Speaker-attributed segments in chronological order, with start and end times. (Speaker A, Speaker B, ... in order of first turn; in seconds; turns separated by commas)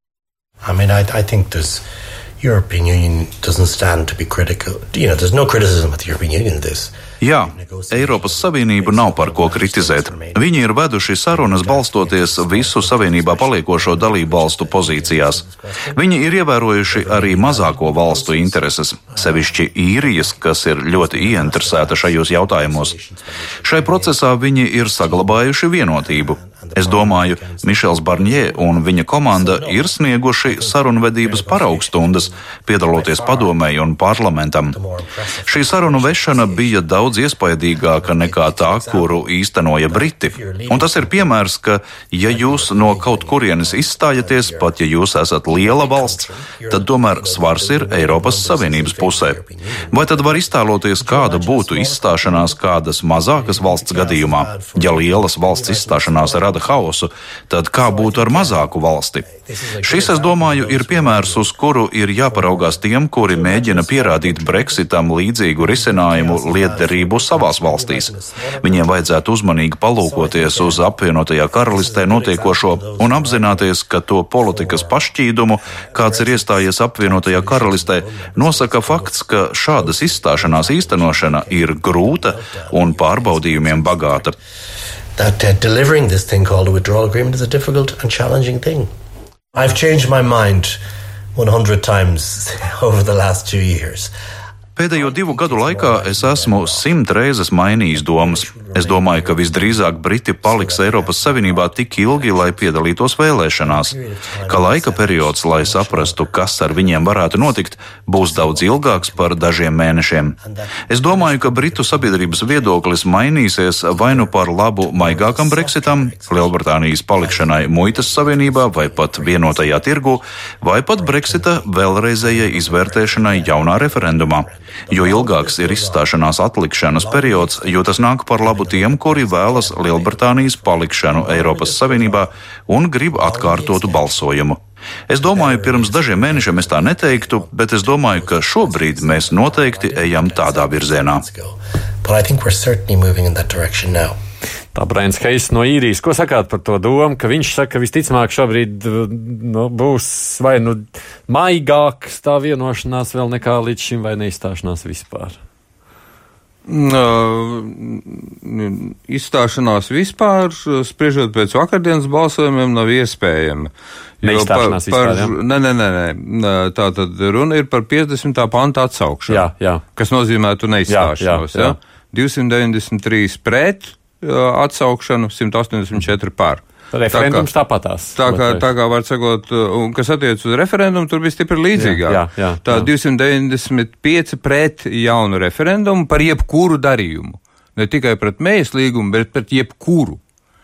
Speaker A: 0.6-1.8, Speaker A: 2.4-10.4, Speaker B: 7.2-23.0, Speaker A: 11.3-15.9, Speaker A: 16.9-18.5, Speaker A: 19.4-20.2, Speaker A: 21.0-23.1, Speaker B: 23.6-34.8, Speaker A: 23.7-24.0, Speaker A: 26.0-28.3, Speaker A: 29.3-29.9, Speaker A: 30.4-30.7, Speaker A: 31.2-32.2, Speaker A: 32.9-33.5, Speaker A: 34.7-36.6, Speaker B: 35.5-59.3, Speaker A: 38.1-39.1, Speaker A: 39.9-41.1, Speaker A: 42.5-44.6, Speaker A: 45.5-49.6, Speaker A: 50.1-50.5, Speaker A: 51.0-52.5, Speaker A: 53.4-56.7, Speaker A: 57.9-58.6, Speaker B: 59.8-84.4, Speaker A: 59.9-61.4, Speaker A: 62.4-62.7, Speaker A: 63.4-64.6, Speaker A: 65.7-68.2, Speaker A: 70.0-70.8, Speaker A: 71.6-73.7, Speaker A: 74.4-74.8, Speaker A: 76.0-79.1, Speaker A: 79.8-84.3, Speaker A: 85.3-88.8, Speaker A: 89.6-90.8, Speaker A: 91.4-92.4, Speaker A: 93.0-94.1, Speaker B: 94.8-110.4, Speaker A: 95.1-96.8, Speaker A: 98.1-99.7, Speaker A: 100.5-101.7, Speaker A: 103.7-106.1, Speaker A: 108.3-109.2, Speaker B: 110.9-141.2, Speaker A: 111.0-112.8, Speaker A: 115.0-116.4, Speaker A: 117.2-119.6, Speaker A: 121.0-121.6, Speaker A: 122.2-124.0, Speaker A: 125.1-126.0, Speaker A: 127.0-127.7, Speaker A: 128.5-130.6, Speaker A: 131.2-132.0, Speaker A: 133.2-134.0, Speaker A: 135.3-137.4, Speaker A: 138.2-141.4, Speaker A: 142.0-144.1, Speaker C: 144.7-155.4, Speaker D: 156.7-177.5, Speaker C: 164.2-165.3, Speaker C: 169.3-169.8, Speaker C: 170.9-171.8, Speaker C: 176.9-178.7, Speaker D: 178.1-190.2, Speaker C: 181.8-182.9